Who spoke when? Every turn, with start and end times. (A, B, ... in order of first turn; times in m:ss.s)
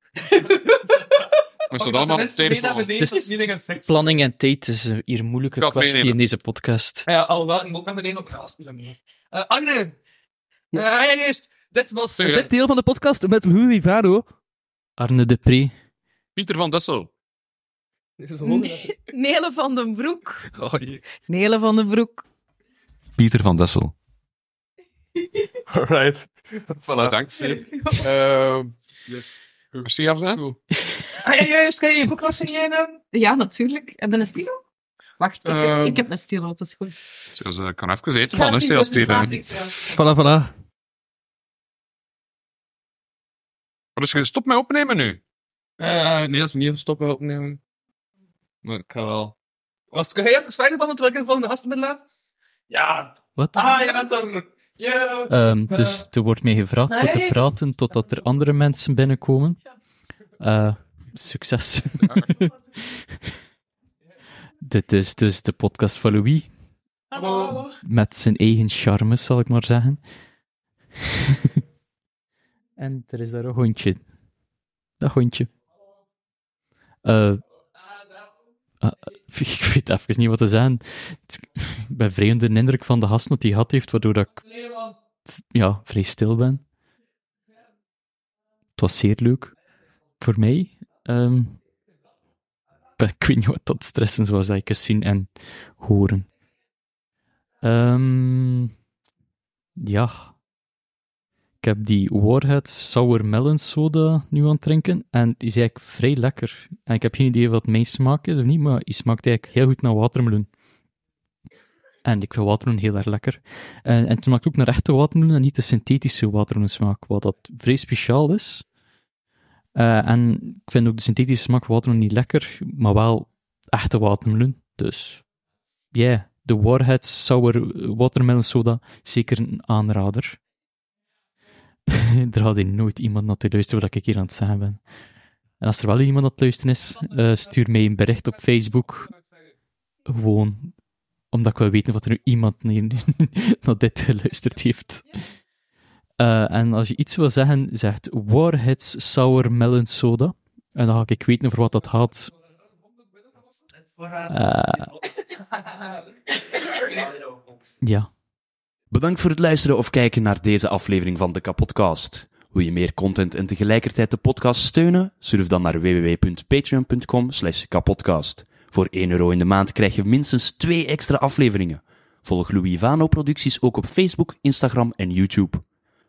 0:00.2-0:04.1 A
0:01.7-0:02.9 B
0:02.8-0:03.3 C
0:03.8-0:07.1 C
0:05.6-0:06.2 B
0:07.1-0:09.9 A
0:10.7-0:14.2 A
0:12.2-0:12.5 B
0:15.0-0:15.7 C
0:16.4-0:17.1 B
0:18.2-0:18.9 A
0:18.4-0:20.5 D
0:20.5-0:21.0 A
0:21.2-0:22.2 D
0:23.2-0:23.9 B
0:25.7-0:29.2 A
0:27.0-0:27.6 B
0:27.6-0:28.0 D
0:28.2-0:28.6 B
0:29.8-0:30.6 A
0:29.8-0:30.4 B
0:31.2-0:33.0 A
0:33.1-0:34.6 D
0:35.2-0:37.0 D
0:35.4-0:36.0 A
0:37.3-0:39.4 B
0:38.4-0:39.4 D
0:38.8-0:40.5 A
0:44.0-0:45.2 B
0:45.8-0:47.6 A
0:48.6-0:49.3 A
0:49.9-0:52.0 A
0:52.7-0:56.0 A
0:53.4-0:53.7 C
0:55.3-0:59.6 C
1:00.4-1:03.1 C
1:02.0-1:02.3 B
1:04.6-1:06.5 C
1:07.1-1:07.7 A
1:07.7-1:10.0 C
1:11.0-1:11.6 C
1:12.8-1:14.0 C
1:15.0-1:15.5 C
1:17.0-1:17.4 C
1:18.8-1:24.9 C
1:25.5-1:26.6 C
1:28.8-1:29.5 C
1:30.2-1:31.6 C
1:33.0-1:36.3 C
1:37.6-1:38.7 C
1:39.8-1:40.3 C
1:41.6-1:50.5 C
1:52.0-1:58.6 C
1:59.7-2:05.2 C
2:05.9-2:10.4 C
2:11.9-2:14.8 C
2:15.6-2:19.1 C
2:20.0-2:20.7 C
2:21.3-2:25.2 C
2:26.2-2:32.3 C
2:34.3-2:34.9 C
2:37.8-2:38.1 C
2:38.9-2:55.6 E